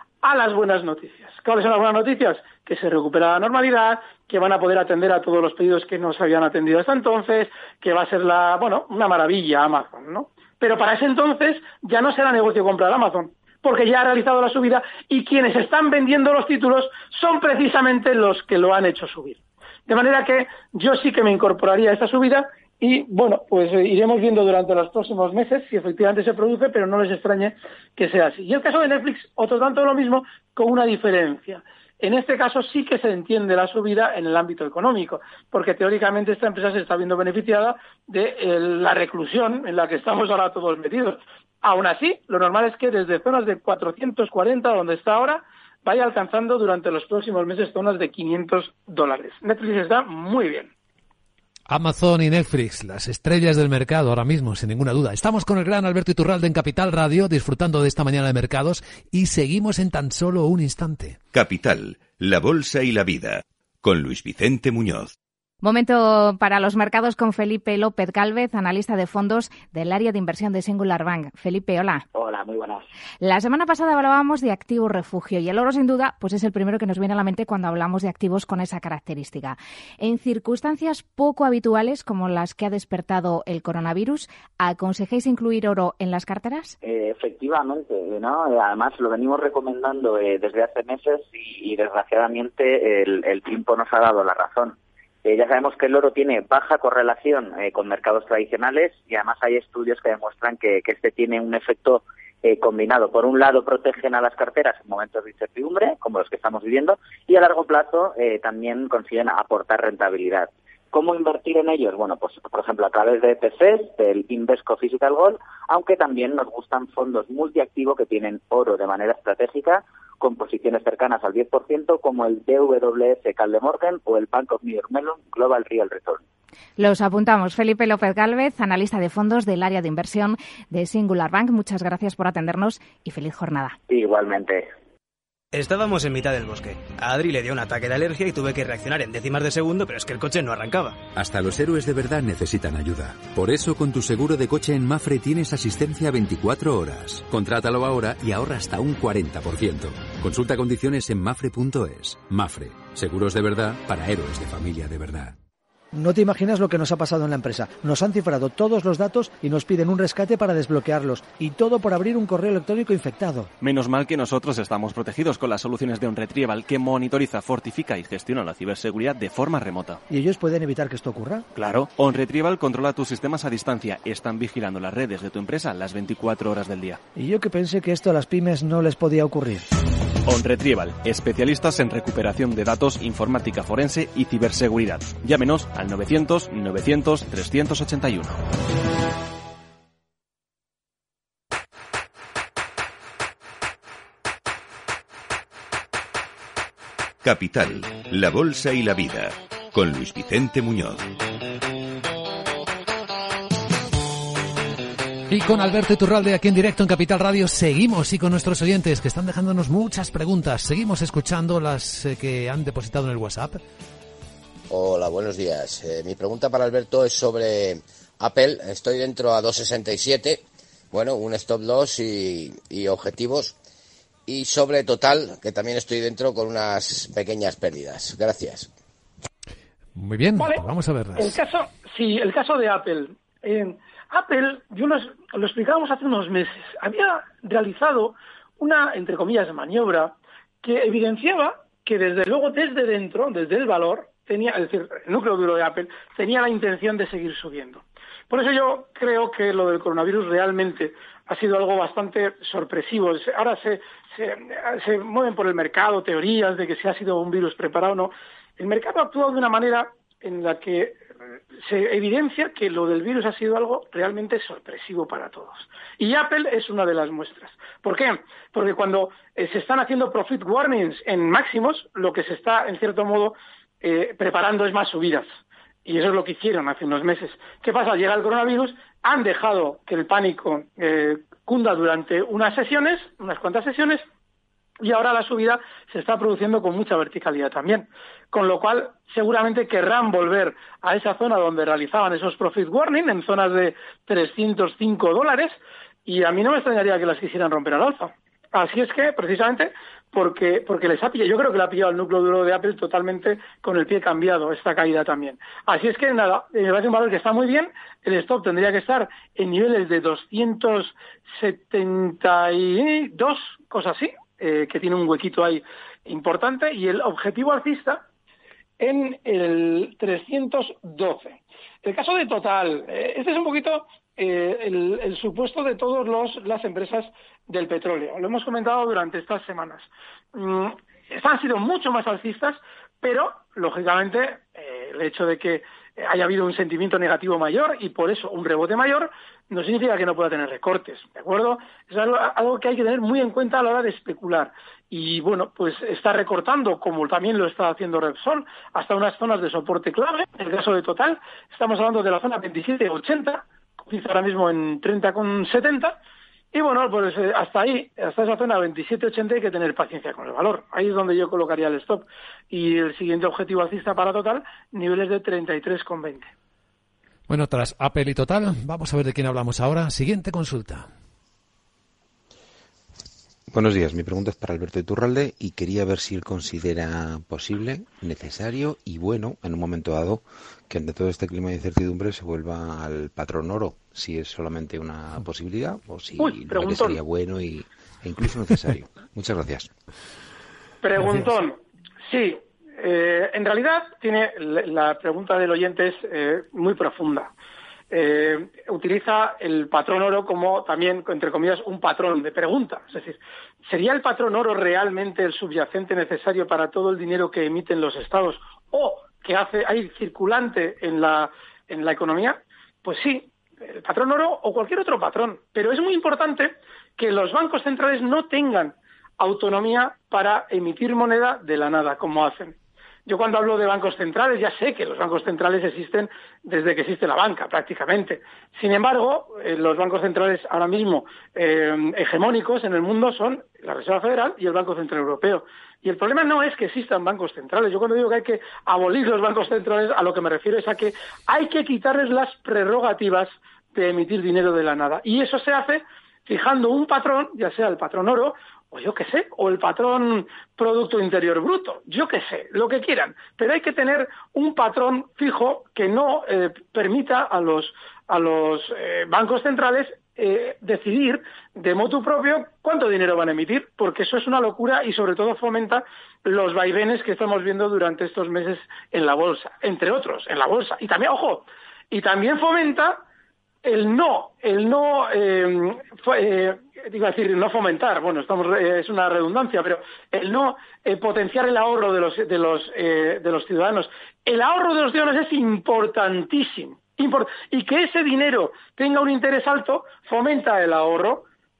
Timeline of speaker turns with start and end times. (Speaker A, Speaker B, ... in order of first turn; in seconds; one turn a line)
Speaker A: 0.2-50.7
Speaker B: 51.7-61.2
Speaker C: 61.3-65.1
Speaker D: 65.6-72.0
Speaker E: 72.1-72.8
Speaker D: 73.2-86.7
Speaker E: 86.8-126.2
Speaker D: 126.8-133.8
Speaker E: 133.9-134.7
Speaker F: 135.5-141.0
Speaker G: 141.1-155.3
Speaker H: 155.9-163.5
Speaker I: 163.6-170.0
Speaker H: 170.1-171.5
Speaker I: 171.5-177.0
Speaker H: 177.1-179.7
Speaker I: 180.2-188.4
Speaker C: 197.2-201.1
Speaker B: 205.3-213.6
Speaker J: 214.7-223.5
Speaker J: 224.3-228.7
Speaker B: 229.9-231.3
Speaker A: 230.4-230.6
Speaker A: 231.2-261.0
Speaker A: 261.5-275.3
Speaker A: 275.8-284.0
Speaker A: 284.8-318.0
Speaker A: 318.8-355.9
Speaker A: 356.5-366.3
Speaker B: 367.3-370.9
Speaker K: 373.5-389.7
Speaker A: 386.2-387.0
Speaker A: 390.8-397.3
Speaker A: 397.9-473.0
Speaker A: 473.6-491.2